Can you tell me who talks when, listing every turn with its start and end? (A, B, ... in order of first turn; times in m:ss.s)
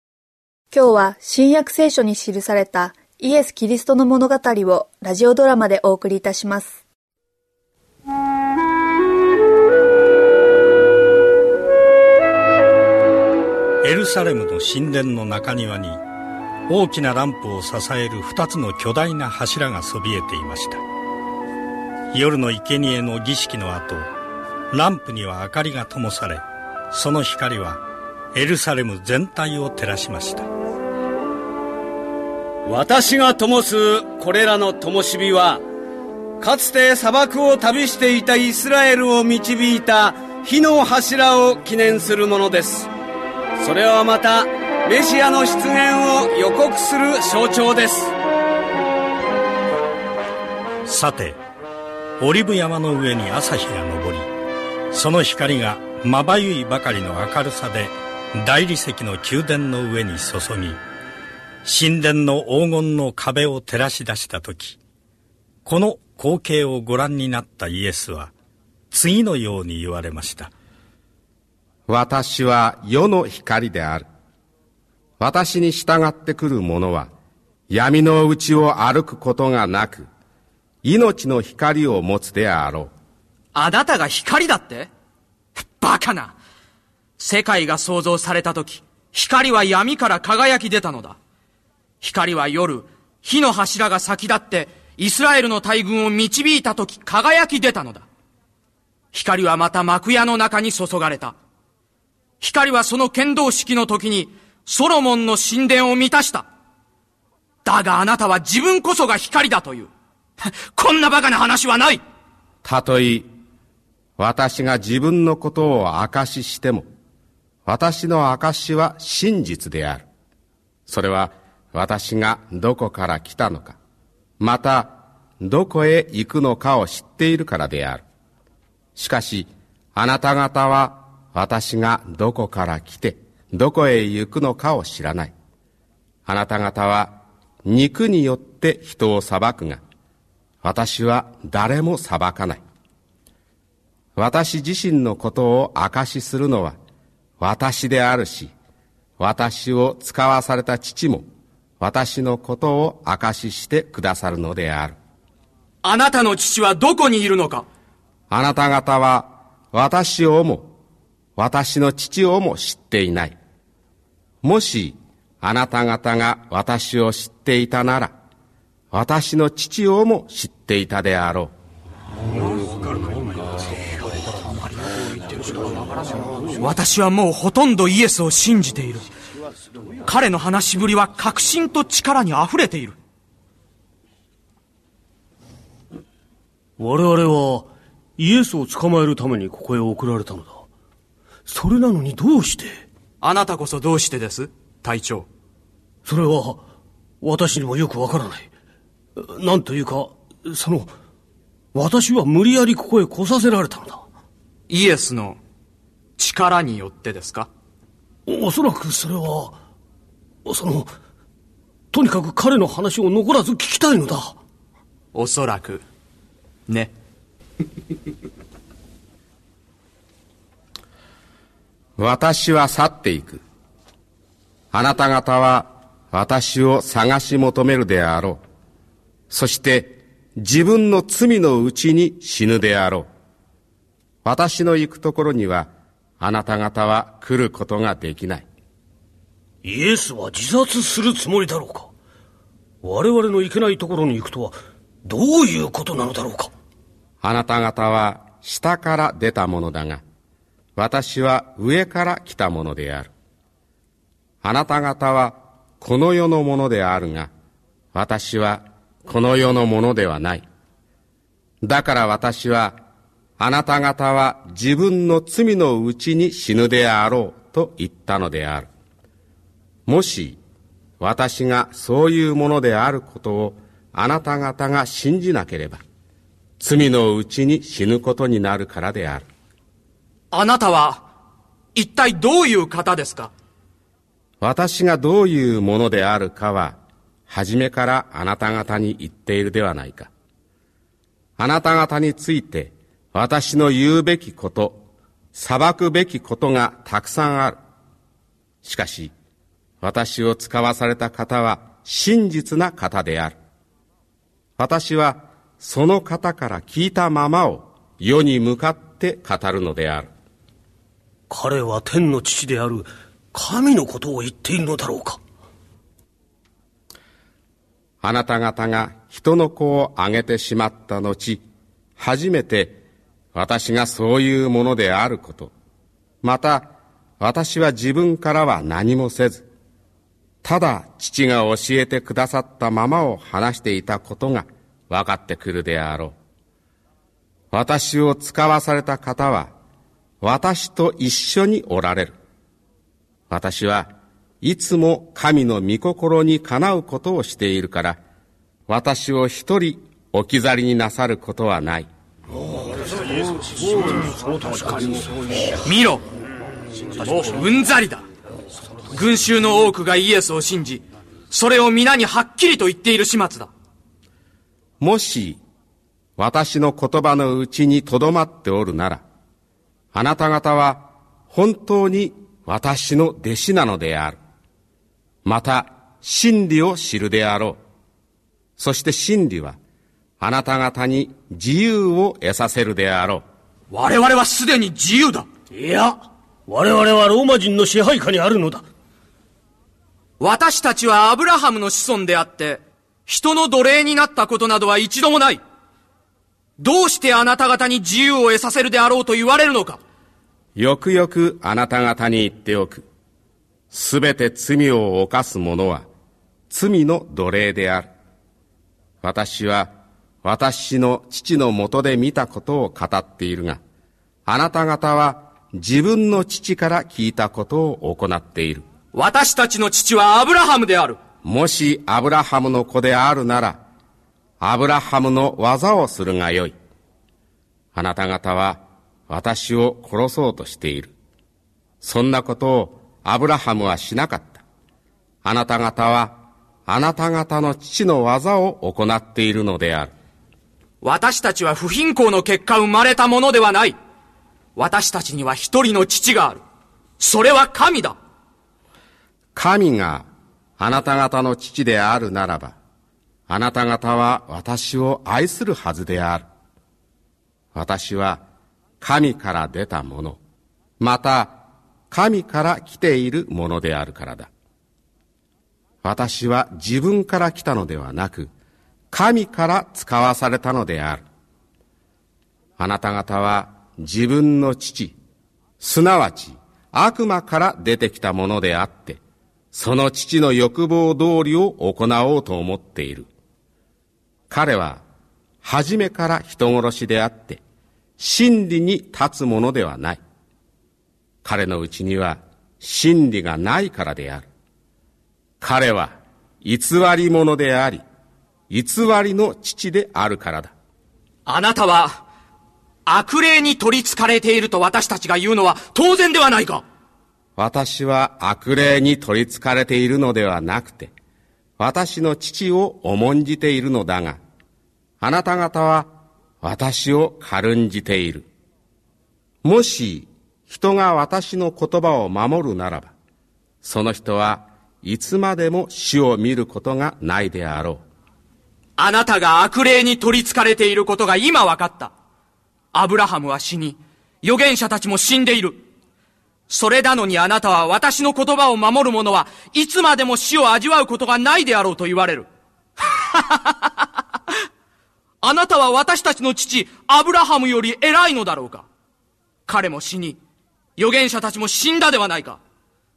0:00.7-0:06.8 A
0:13.8-0:16.0 B
0:16.7-0:20.8 B
0:22.1-0:24.1 B
0:24.7-0:27.8 B
0:28.4-0:30.5 B
0:32.6-0:35.6 C
0:36.4-0:42.9 C
0:43.6-0:48.1 C
0:50.8-0:51.4 B
0:52.2-0:54.3 B
0:54.9-1:00.8 B
1:01.6-1:04.8 B
1:05.6-1:08.3 B
1:08.9-1:10.5 B
1:11.9-1:14.1 D
1:15.2-1:17.1 D
1:17.7-1:20.1 D
1:20.8-1:22.9 D
1:23.6-1:24.9 E
1:25.8-1:26.3 E
1:27.2-1:31.2 E
1:32.0-1:38.0 E
1:39.1-1:41.4 E
1:42.4-1:46.4 E
1:47.6-1:52.0 E
1:52.6-1:53.3 D
1:54.2-1:56.9 D
1:57.7-2:00.0 D
2:00.9-2:03.8 D
2:04.4-2:08.0 D
2:09.0-2:15.3 D
2:16.3-2:19.8 D
2:20.6-2:22.6 D
2:24.2-2:26.8 D
2:27.4-2:28.5 D
2:29.2-2:31.3 D
2:31.8-2:35.0 D
2:35.8-2:37.6 E
2:38.3-2:40.7 D
2:41.4-2:43.4 D
2:44.4-2:48.1 D
2:48.9-2:51.5 D
2:56.6-2:59.1 E
3:00.1-3:03.0 E
3:06.8-3:10.6 F
3:11.5-3:12.8 F
3:13.2-3:15.3 E
3:16.1-3:16.6 F
3:17.2-3:18.5 F
3:19.2-3:20.9 F
3:21.7-3:24.0 F
3:24.7-3:25.4 E
3:26.2-3:27.5 E
3:28.3-3:29.6 F
3:30.4-3:30.9 F
3:31.9-3:34.4 F
3:35.1-3:35.8 E
3:42.0-3:43.4 D
3:44.7-3:48.4 D
3:49.3-3:53.1 D
3:54.2-3:58.5 D
3:59.6-4:01.9 F
4:02.8-4:06.5 F
4:07.2-4:10.0 D
4:10.8-4:13.1 D
4:14.4-4:17.3 D
4:17.9-4:20.4 D
4:21.6-4:22.8 D
4:23.4-4:28.7 D
4:29.9-4:30.4 D
4:31.0-4:35.8 D
4:36.6-4:39.2 D
4:40.3-4:41.1 E
4:41.8-4:43.3 E
4:44.4-4:46.8 D
4:47.3-4:50.1 D
4:51.4-4:54.8 D
4:55.3-4:57.6 D
4:58.6-4:59.1 D
4:59.8-5:03.4 D
5:04.6-5:10.1 D
5:11.3-5:15.2 F
5:18.0-5:21.4 D
5:22.0-5:22.8 D
5:23.4-5:25.5 D
5:26.2-5:26.7 D
5:27.2-5:29.5 D
5:30.4-5:36.2 D
5:37.5-5:39.5 D
5:40.2-5:42.2 D
5:43.3-5:43.9 D
5:44.4-5:48.0 D
5:48.7-5:51.9 D
5:52.7-5:55.5 F
5:55.6-5:56.0 E
5:57.0-5:58.0 E
5:58.9-6:03.5 E
6:04.8-6:05.4 D
6:06.2-6:09.0 D
6:09.9-6:14.2 D
6:15.2-6:17.6 D
6:18.6-6:19.6 D
6:20.2-6:23.2 D
6:23.7-6:25.3 E
6:25.5-6:28.6 F
6:30.2-6:35.4 E
6:36.6-6:39.8 E
6:40.6-6:42.8 D
6:43.7-6:45.9 D
6:46.5-6:47.9 D
6:49.0-6:49.7 D
6:50.2-6:53.6 D
6:54.3-6:58.6 D
6:58.9-7:01.0 E
7:01.2-7:03.6 D
7:04.4-7:06.6 D
7:07.8-7:10.9 D
7:11.8-7:14.4 D
7:15.2-7:19.9 D
7:20.8-7:23.8 E
7:24.6-7:26.4 E
7:27.0-7:28.0 E
7:29.4-7:30.1 D
7:30.6-7:32.6 D
7:33.3-7:36.2 D
7:37.6-7:38.2 D
7:38.8-7:40.2 D
7:40.8-7:41.4 D
7:41.9-7:44.3 D
7:45.8-7:48.3 D
7:48.9-7:51.0 D
7:52.6-7:55.0 D
7:55.6-7:59.0 D
7:59.5-8:03.1 D
8:04.3-8:04.8 D
8:05.4-8:07.4 D
8:08.0-8:10.0 D
8:11.2-8:14.3 D
8:15.4-8:17.8 D
8:18.5-8:20.5 D
8:21.2-8:22.0 E
8:22.9-8:26.6 E
8:27.4-8:30.9 D
8:31.6-8:34.2 D
8:35.0-8:35.9 D
8:36.4-8:38.3 D
8:39.4-8:42.9 D
8:43.6-8:47.8 D
8:48.8-8:51.9 E
8:52.7-8:55.6 E
8:56.5-9:02.3 E
9:03.1-9:03.7 E
9:05.2-9:08.7 E
9:09.5-9:10.2 E
9:10.8-9:12.4 E